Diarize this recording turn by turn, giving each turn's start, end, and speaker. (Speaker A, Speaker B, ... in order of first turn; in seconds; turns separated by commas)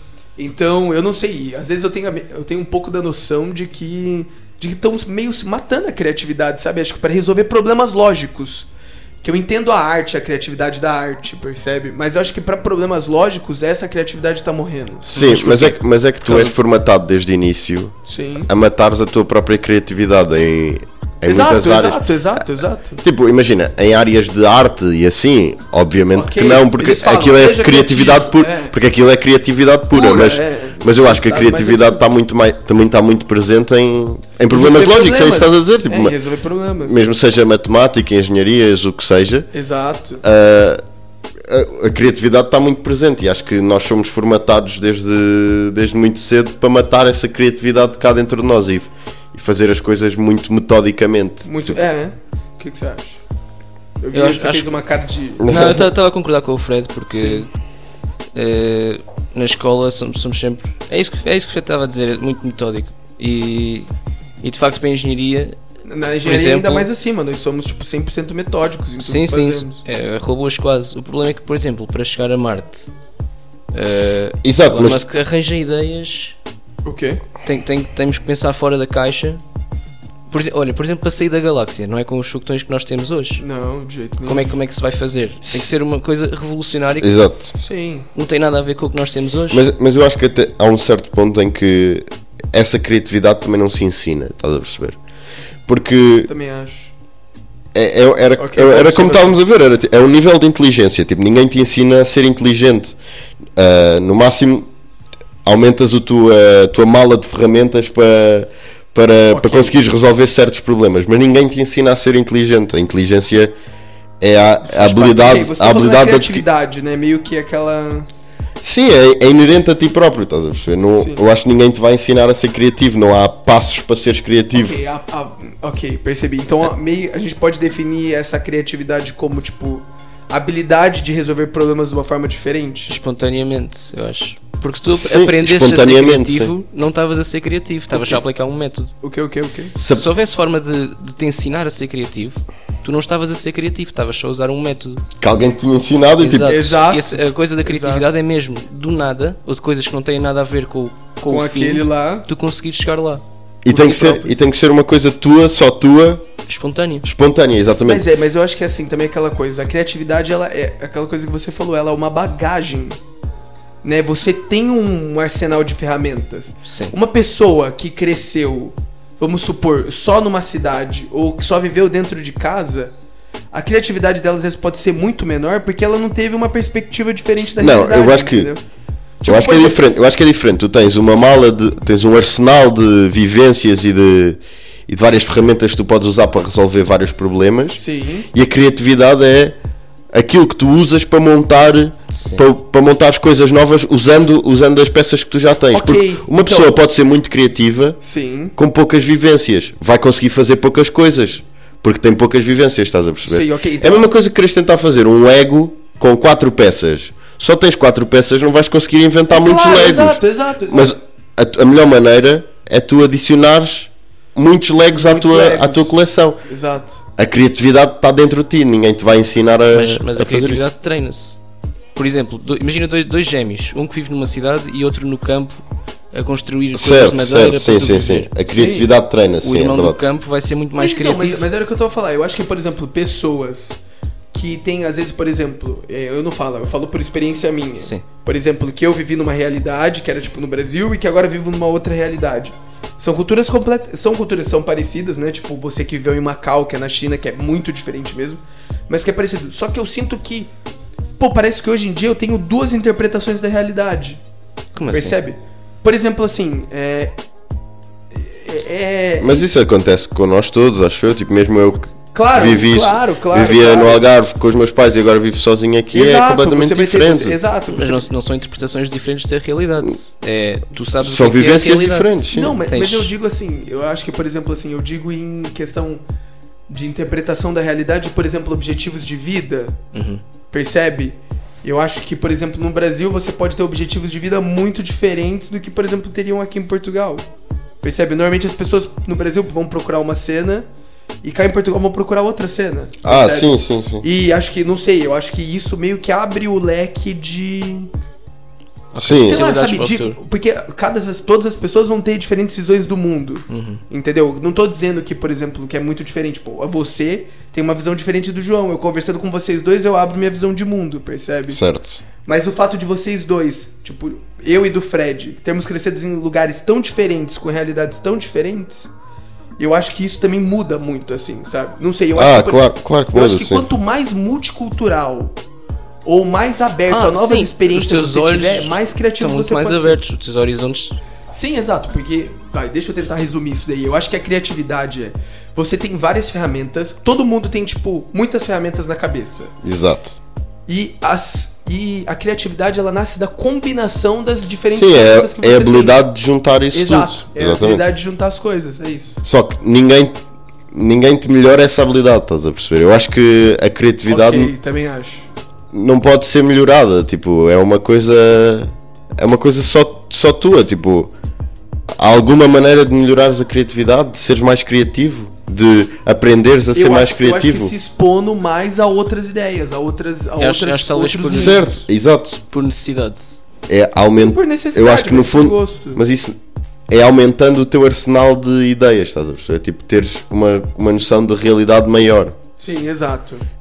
Speaker A: 0.4-8.7, Speaker A: 9.2-15.7, Speaker B: 15.1-17.9, Speaker C: 15.2-16.6, Speaker A: 18.1-18.5, Speaker B: 18.5-22.4, Speaker A: 21.2-23.0, Speaker B: 23.0-36.1, Speaker A: 26.1-28.7, Speaker A: 29.9-32.1, Speaker A: 34.5-37.0, Speaker B: 36.8-39.5, Speaker A: 39.5-40.2, Speaker B: 40.2-40.8, Speaker B: 41.4-51.8, Speaker A: 51.4-53.2, Speaker A: 54.0-55.7, Speaker C: 54.1-54.7, Speaker B: 55.4-55.8, Speaker C: 55.5-57.5, Speaker A: 57.1-57.5, Speaker C: 58.3-63.9, Speaker C: 64.4-65.6, Speaker A: 65.9-69.8, Speaker C: 66.2-66.9, Speaker C: 69.0-72.9, Speaker C: 73.7-76.3, Speaker B: 74.4-75.0, Speaker A: 76.8-77.2, Speaker C: 77.4-79.4, Speaker C: 80.3-83.4, Speaker A: 83.4-84.5, Speaker C: 84.2-87.2, Speaker B: 85.4-85.7, Speaker B: 87.0-87.5, Speaker A: 87.6-88.1, Speaker C: 88.1-89.6, Speaker B: 89.5-95.0, Speaker B: 95.7-96.3, Speaker A: 96.3-96.9, Speaker B: 97.7-103.0, Speaker A: 98.4-99.4, Speaker B: 103.5-104.7, Speaker B: 105.4-113.5, Speaker A: 109.3-109.8, Speaker B: 114.2-116.4, Speaker A: 114.6-118.1, Speaker B: 118.6-124.8, Speaker A: 124.5-132.9, Speaker C: 132.9-138.9, Speaker B: 134.9-136.5, Speaker A: 139.0-139.7, Speaker B: 139.8-140.1, Speaker C: 139.8-145.0, Speaker B: 145.2-146.6, Speaker C: 146.2-153.2, Speaker A: 146.4-148.1, Speaker A: 151.2-152.3, Speaker B: 153.6-156.2, Speaker A: 153.7-154.3, Speaker C: 156.5-157.0, Speaker B: 157.0-158.0, Speaker A: 157.8-163.0, Speaker A: 163.8-172.9, Speaker C: 166.7-166.9, Speaker A: 173.5-178.6, Speaker B: 177.6-178.5, Speaker A: 179.2-179.9, Speaker B: 179.2-187.8, Speaker A: 187.7-188.3, Speaker B: 188.3-189.6, Speaker B: 190.1-198.0, Speaker C: 192.1-192.4, Speaker A: 195.7-196.8, Speaker A: 198.0-198.5, Speaker B: 198.6-216.4, Speaker A: 203.2-204.1, Speaker A: 209.3-210.9, Speaker A: 214.9-215.9, Speaker A: 216.4-217.0, Speaker B: 217.2-220.7, Speaker C: 219.7-221.4, Speaker C: 221.9-228.3, Speaker B: 226.7-230.0, Speaker A: 228.5-228.9, Speaker C: 229.4-231.5, Speaker A: 230.8-233.8, Speaker A: 234.3-250.5, Speaker A: 251.2-254.2, Speaker C: 254.7-255.2, Speaker A: 254.9-257.1, Speaker A: 258.1-259.5, Speaker B: 259.2-267.4, Speaker A: 262.1-264.0, Speaker A: 265.9-268.1, Speaker C: 267.7-273.1, Speaker B: 271.0-272.6, Speaker A: 272.3-276.0, Speaker A: 276.7-279.8, Speaker C: 279.9-280.2, Speaker A: 280.5-287.2, Speaker A: 287.8-290.7, Speaker A: 291.2-297.9, Speaker B: 293.0-294.1, Speaker C: 298.9-300.2, Speaker B: 299.0-299.4, Speaker A: 299.2-311.6, Speaker C: 303.5-303.8, Speaker B: 311.5-312.0, Speaker A: 312.2-318.9, Speaker A: 319.6-325.4, Speaker B: 322.1-323.7, Speaker A: 326.0-330.0, Speaker C: 326.9-331.0, Speaker A: 331.3-339.6, Speaker B: 339.6-340.2, Speaker A: 340.7-346.0, Speaker B: 344.7-347.8, Speaker A: 346.7-349.2, Speaker B: 349.2-350.2, Speaker B: 350.7-354.5, Speaker A: 354.1-355.3, Speaker B: 355.7-361.1, Speaker B: 362.0-367.7, Speaker A: 366.7-371.9, Speaker C: 370.4-371.6, Speaker B: 371.3-372.4, Speaker C: 372.5-373.4, Speaker B: 373.7-376.4, Speaker A: 374.1-376.0, Speaker B: 376.9-382.4, Speaker A: 382.6-383.4